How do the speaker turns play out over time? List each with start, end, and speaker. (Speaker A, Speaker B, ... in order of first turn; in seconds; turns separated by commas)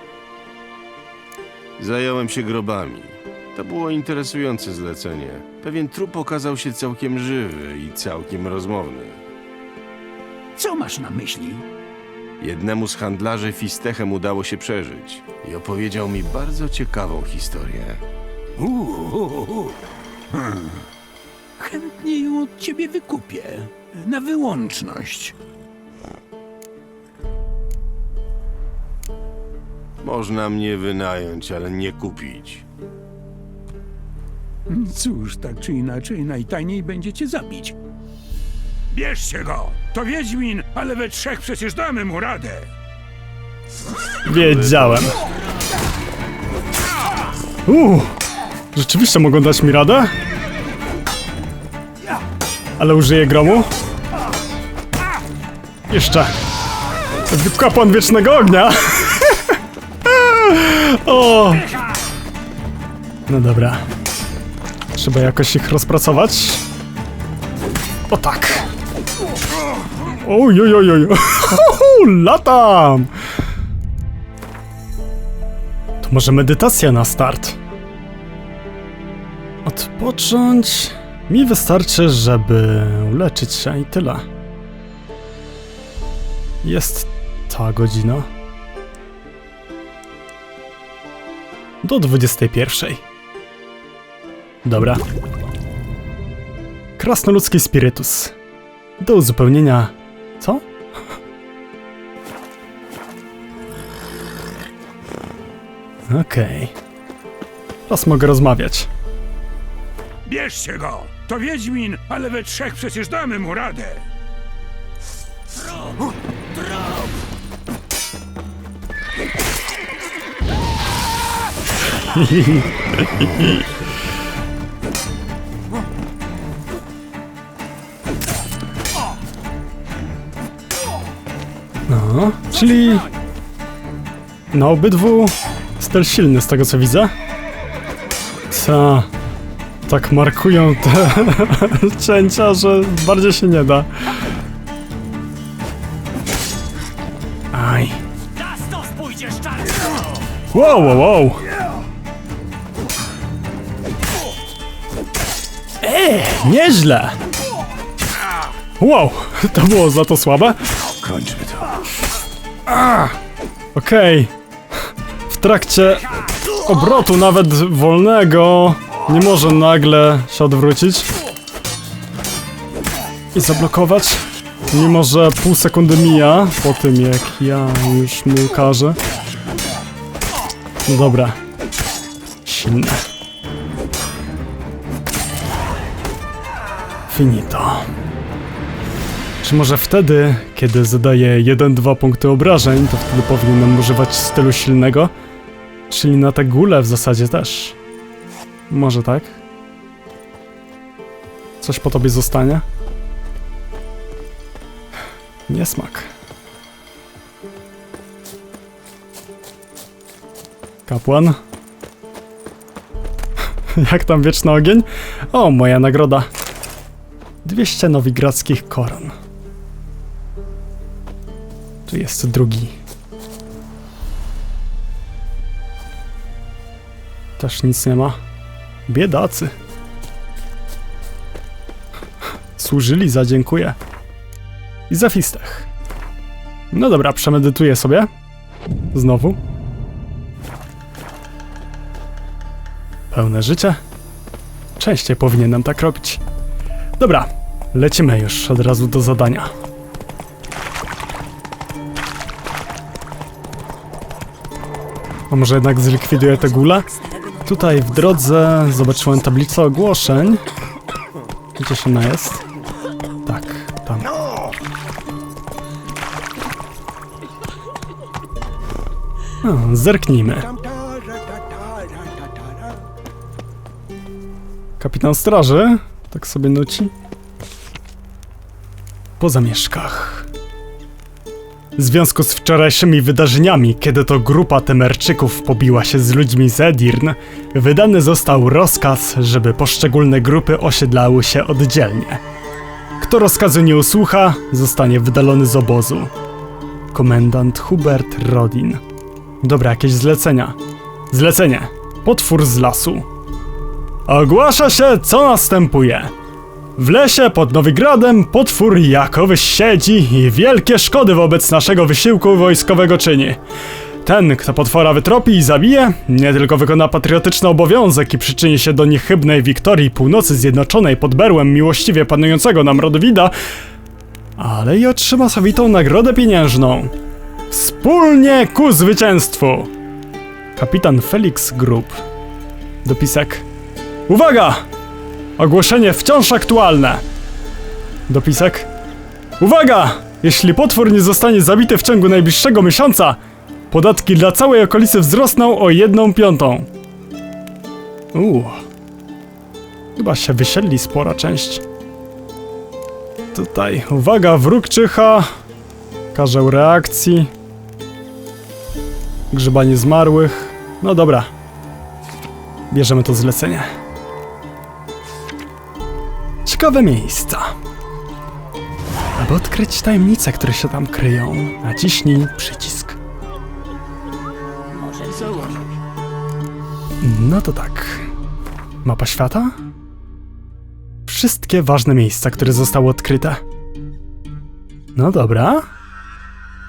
Speaker A: 1.8-9.2, Speaker B: 10.6-11.6, Speaker A: 12.4-18.0, Speaker B: 18.6-19.7, Speaker B: 20.3-20.8, Speaker B: 21.6-25.3, Speaker A: 30.0-32.6, Speaker B: 34.7-37.8, Speaker B: 38.9-42.7, Speaker C: 44.2-45.1, Speaker A: 44.4-45.0, Speaker C: 47.6-48.1, Speaker C: 48.7-50.1, Speaker C: 52.8-53.7, Speaker C: 55.9-56.3, Speaker C: 57.3-61.7, Speaker C: 63.3-63.8, Speaker C: 64.9-66.6, Speaker C: 68.1-68.7, Speaker C: 70.1-73.1, Speaker C: 76.0-77.6, Speaker C: 79.6-84.2, Speaker C: 86.6-88.3, Speaker C: 91.8-93.0, Speaker C: 94.6-95.0, Speaker C: 97.0-98.3, Speaker C: 99.0-100.6, Speaker C: 106.1-106.7, Speaker C: 107.9-108.9, Speaker B: 110.2-114.0, Speaker C: 122.0-123.7, Speaker C: 131.9-133.1, Speaker C: 134.5-137.1, Speaker C: 138.5-139.1, Speaker C: 139.9-143.9, Speaker C: 147.5-148.0, Speaker B: 148.8-149.7, Speaker C: 150.5-151.4, Speaker C: 155.8-157.2, Speaker C: 158.8-160.6, Speaker A: 161.0-161.7, Speaker C: 162.7-163.1, Speaker C: 163.7-164.3, Speaker C: 165.3-166.1, Speaker C: 166.6-171.1, Speaker C: 173.3-179.0, Speaker C: 180.8-181.4, Speaker C: 182.4-183.0, Speaker C: 187.1-187.9, Speaker C: 189.4-195.1, Speaker C: 195.9-197.8, Speaker C: 198.7-199.3, Speaker C: 201.6-202.6, Speaker C: 205.5-206.1, Speaker C: 210.9-211.4, Speaker C: 213.7-216.3, Speaker C: 217.4-219.1, Speaker C: 221.9-222.8, Speaker C: 227.4-228.2, Speaker C: 228.9-229.5, Speaker C: 232.6-233.8, Speaker C: 234.9-235.7, Speaker C: 236.7-238.1, Speaker C: 238.9-239.4, Speaker C: 243.1-243.8, Speaker C: 244.8-246.2, Speaker C: 247.0-249.5, Speaker C: 255.3-260.4, Speaker C: 261.6-262.4, Speaker C: 263.2-264.1, Speaker C: 269.4-270.5, Speaker C: 274.8-276.9, Speaker C: 279.2-280.3, Speaker C: 281.8-292.2, Speaker C: 293.0-296.1, Speaker C: 296.9-298.8, Speaker C: 299.4-300.6, Speaker C: 301.1-303.1, Speaker C: 304.1-306.1, Speaker C: 306.8-313.4, Speaker C: 314.0-323.3, Speaker C: 324.4-326.9, Speaker C: 327.5-329.7, Speaker C: 330.6-332.0, Speaker C: 332.8-333.5, Speaker C: 334.1-334.6, Speaker C: 335.4-337.0, Speaker C: 338.1-338.7, Speaker C: 339.4-343.2, Speaker C: 343.7-346.7, Speaker C: 348.1-348.6, Speaker C: 349.9-351.6, Speaker C: 353.3-355.3, Speaker C: 356.1-357.3, Speaker C: 359.3-361.3, Speaker C: 362.7-363.7, Speaker C: 366.4-367.6, Speaker C: 369.2-373.0, Speaker C: 377.0-378.1, Speaker C: 378.8-379.5, Speaker C: 381.1-383.4, Speaker C: 384.9-385.6